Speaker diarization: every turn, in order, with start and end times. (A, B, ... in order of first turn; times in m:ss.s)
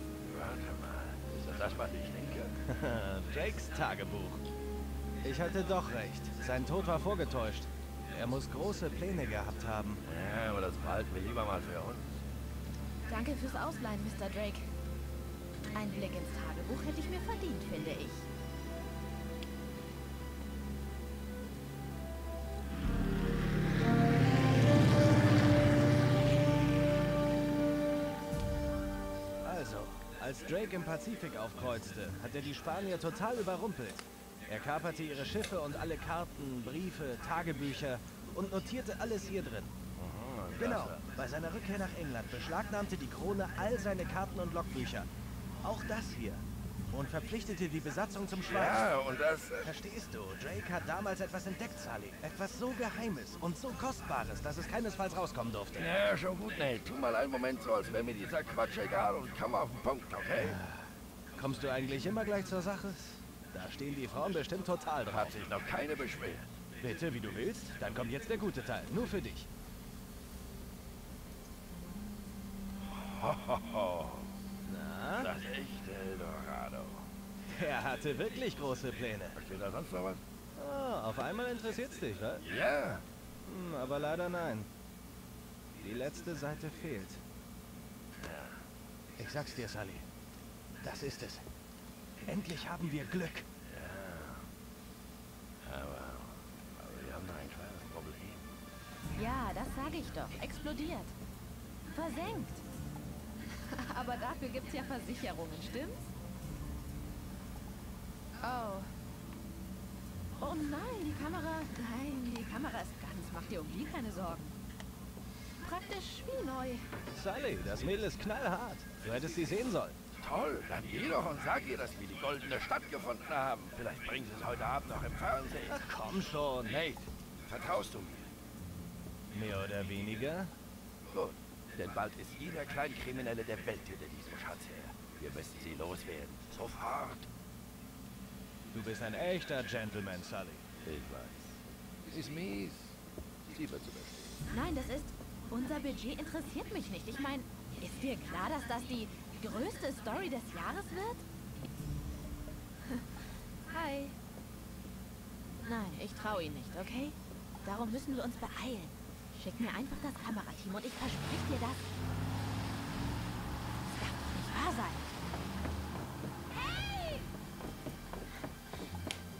0:00.3-0:02.5 A
0:02.7-0:04.4 B
0:05.2-0:10.0 B
0:10.1-0:12.2 A
0:13.1-0:14.7 C
0:15.7-0:18.2 C
0:29.4-0:39.8 B
0:40.0-0:41.0 A
0:40.6-0:45.1 B
0:45.6-0:48.9 B
0:48.5-0:49.7 A
0:49.6-0:55.9 B
0:55.8-1:00.6 A
1:00.4-1:00.8 B
1:01.4-1:05.4 B
1:05.1-1:06.5 A
1:06.8-1:09.5 B
1:13.0-1:14.3 A
1:14.6-1:15.4 B
1:15.2-1:17.1 A
1:17.5-1:19.4 B
1:19.4-1:20.2 A
1:20.6-1:22.4 B
1:22.4-1:23.0 A
1:23.4-1:24.7 B
1:25.8-1:27.2 B
1:28.2-1:28.6 A
1:29.2-1:30.0 B
1:30.8-1:31.4 B
1:32.2-1:33.4 B
1:33.7-1:34.5 A
1:35.6-1:38.5 A
1:39.1-1:41.1 C
1:41.9-1:42.6 C
1:43.5-1:46.1 C
1:48.4-1:48.9 C
1:50.4-1:54.6 C
1:55.6-1:56.9 C
1:57.1-2:00.0 B
2:00.2-2:05.8 A
2:05.7-2:06.8 B
2:06.7-2:08.3 A
2:09.3-2:10.5 B
2:11.1-2:17.2 A
2:18.7-2:20.6 B
2:20.8-2:21.6 A
2:22.1-2:22.9 A
2:23.5-2:24.4 A
2:24.5-2:31.2 C
2:33.7-2:34.2 C
2:35.6-2:41.8 C
2:44.3-2:45.0 C